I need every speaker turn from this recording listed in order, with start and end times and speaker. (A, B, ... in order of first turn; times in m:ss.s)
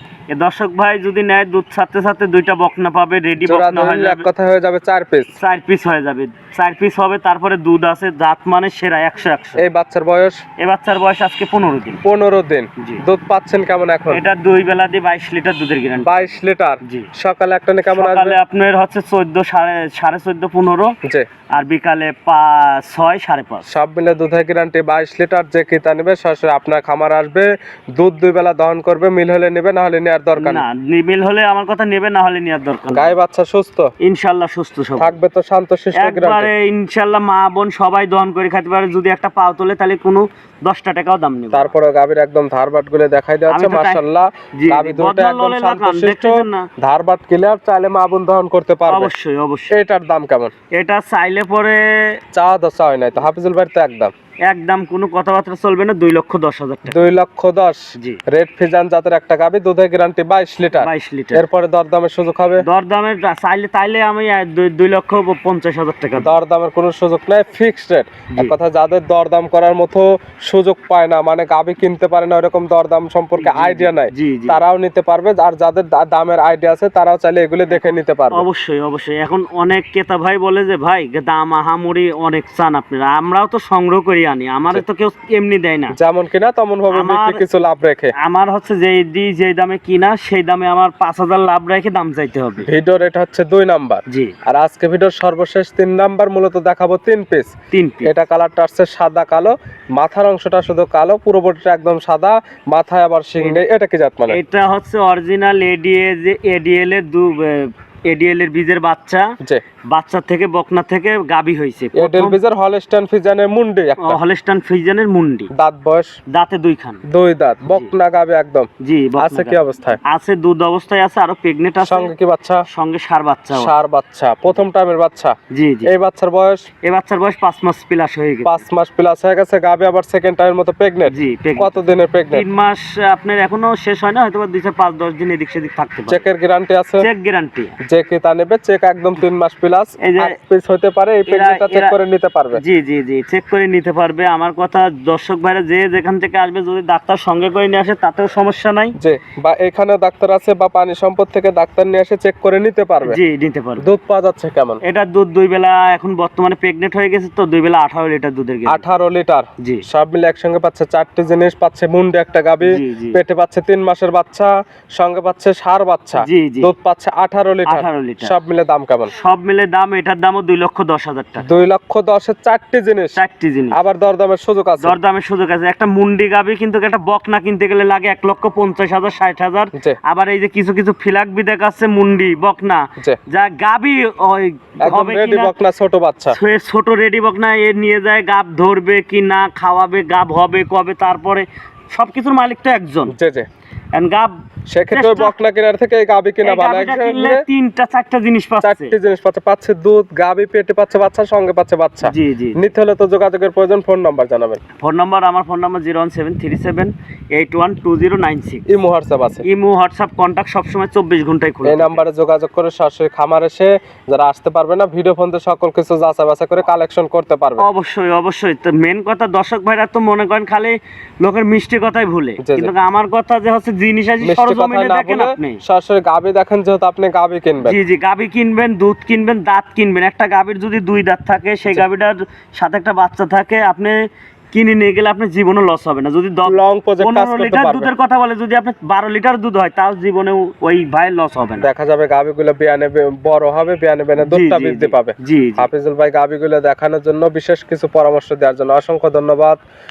0:00.3-0:04.3 A
0:03.4-0:05.3 B
0:05.4-0:09.6 A
0:09.6-0:10.4 B
0:10.6-0:12.0 A
0:12.0-0:14.2 B
0:14.1-0:17.1 A
0:16.0-0:18.4 B
0:17.9-0:20.9 A
0:21.5-0:23.7 A
0:23.7-0:30.6 B
0:30.4-0:33.1 A
0:32.9-0:33.9 B
0:34.0-0:35.2 A
0:35.0-0:36.5 B
0:36.0-0:41.7 A
0:41.5-0:49.1 B
0:43.5-0:44.0 A
0:44.5-0:46.7 A
0:48.9-0:49.8 A
0:49.7-0:50.5 B
0:50.7-0:52.2 A
0:52.3-0:54.1 B
0:54.5-0:57.1 A
0:56.9-1:02.6 B
1:00.8-1:01.4 A
1:02.6-1:06.4 A
1:06.2-1:18.4 B
1:13.4-1:14.6 A
1:17.7-1:25.9 A
1:25.9-1:28.1 B
1:26.9-1:27.4 A
1:28.2-1:32.7 A
1:32.6-1:37.5 B
1:34.1-1:34.3 A
1:37.7-1:38.1 A
1:38.0-1:44.4 B
1:44.3-1:49.3 A
1:49.9-1:52.4 A
1:52.0-1:54.2 B
1:54.0-1:55.5 A
1:55.5-1:56.2 B
1:56.3-1:57.0 A
1:57.1-2:00.0 B
1:58.8-2:02.1 A
2:01.8-2:02.6 B
2:02.7-2:03.7 A
2:03.5-2:06.7 B
2:05.5-2:05.9 A
2:06.8-2:08.6 A
2:08.4-2:12.4 B
2:11.1-2:16.3 A
2:16.1-2:17.1 B
2:17.0-2:17.8 A
2:17.8-2:22.6 B
2:20.0-2:20.4 A
2:21.3-2:22.0 A
2:22.6-2:29.0 A
2:29.0-2:33.2 B
2:33.0-2:33.9 A
2:33.8-2:34.8 B
2:34.8-2:38.9 A
2:38.7-2:49.1 B
2:42.6-2:43.2 A
2:46.2-2:46.7 A
2:47.7-2:48.4 A
2:49.1-2:51.5 A
2:51.4-2:53.2 B
2:53.2-2:53.8 A
2:53.7-2:55.0 B
2:54.8-3:05.5 A
3:04.8-3:06.4 B
3:06.3-3:13.1 A
3:13.1-3:13.5 B
3:13.9-3:14.3 A
3:14.7-3:17.4 B
3:14.9-3:15.4 A
3:16.4-3:19.0 A
3:18.6-3:24.6 B
3:22.0-3:22.7 A
3:24.8-3:28.7 A
3:28.7-3:29.4 B
3:29.4-3:32.0 A
3:31.6-3:37.7 B
3:37.6-3:45.6 A
3:42.4-3:42.7 B
3:44.2-3:47.8 B
3:47.6-3:54.0 A
3:54.5-4:01.7 A
3:56.4-3:57.9 B
4:01.6-4:09.6 B
4:04.2-4:05.7 A